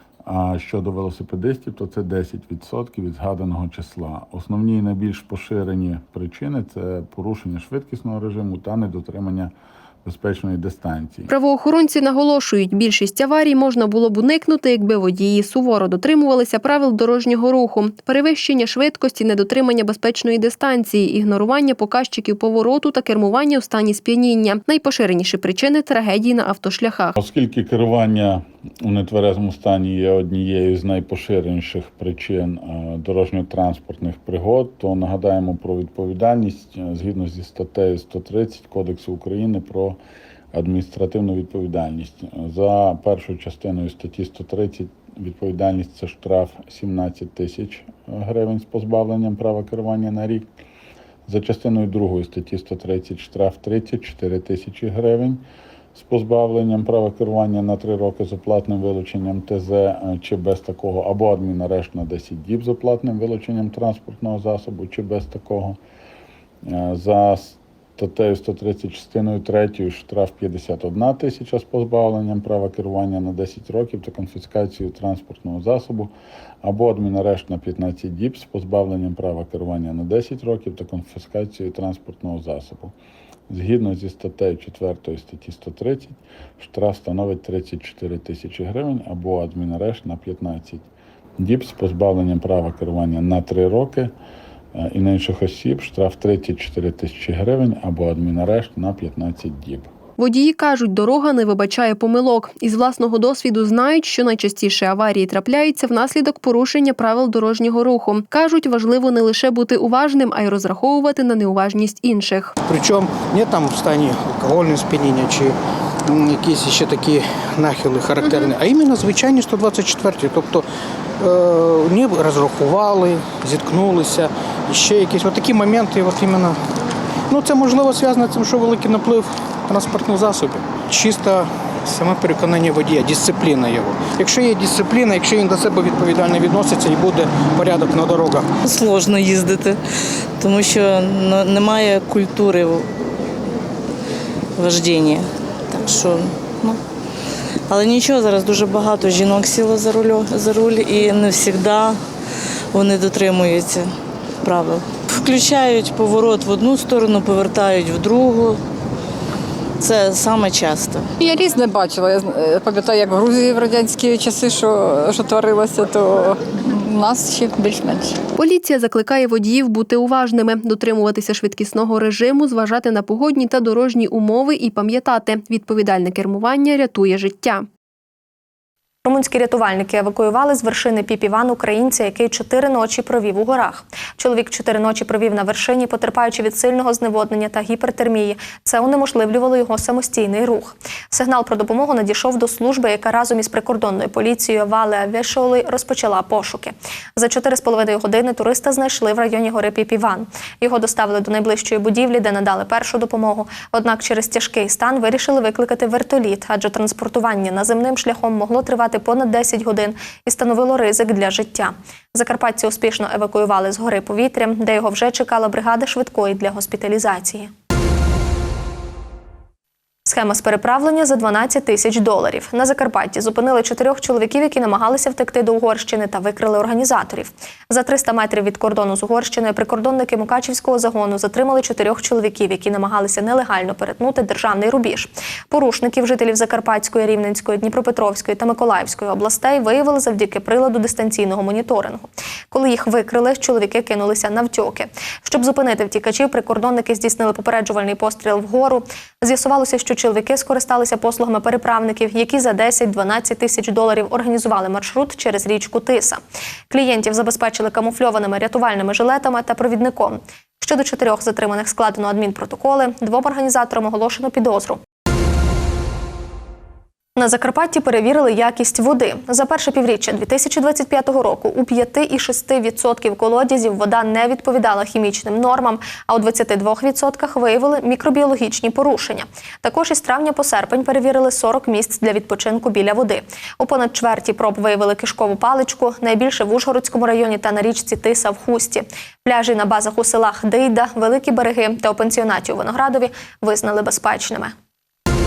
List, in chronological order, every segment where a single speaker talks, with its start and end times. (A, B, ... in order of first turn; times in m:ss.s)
0:00.3-0:09.5 A
0:10.0-0:11.3 A
0:11.3-0:27.2 B
0:27.2-0:40.0 A
0:40.5-0:50.5 A
0:51.3-0:55.4 A
0:56.0-1:05.8 A
1:06.6-1:16.1 A
1:16.6-1:22.9 A
1:23.5-1:30.9 A
1:31.4-1:34.1 A
1:34.7-1:39.9 A
1:40.2-1:52.6 B
1:52.6-2:00.6 C
1:58.2-1:58.5 B
2:01.2-2:06.6 C
2:07.3-2:18.5 C
2:18.6-2:19.8 D
2:20.4-2:22.9 D
2:24.6-2:26.8 D
2:27.7-2:32.0 D
2:32.7-2:38.6 D
2:39.8-2:41.1 D
2:41.2-2:48.2 E
2:48.4-2:57.7 B
2:59.0-3:37.5 F
3:40.1-4:24.8 F
4:27.2-4:54.5 F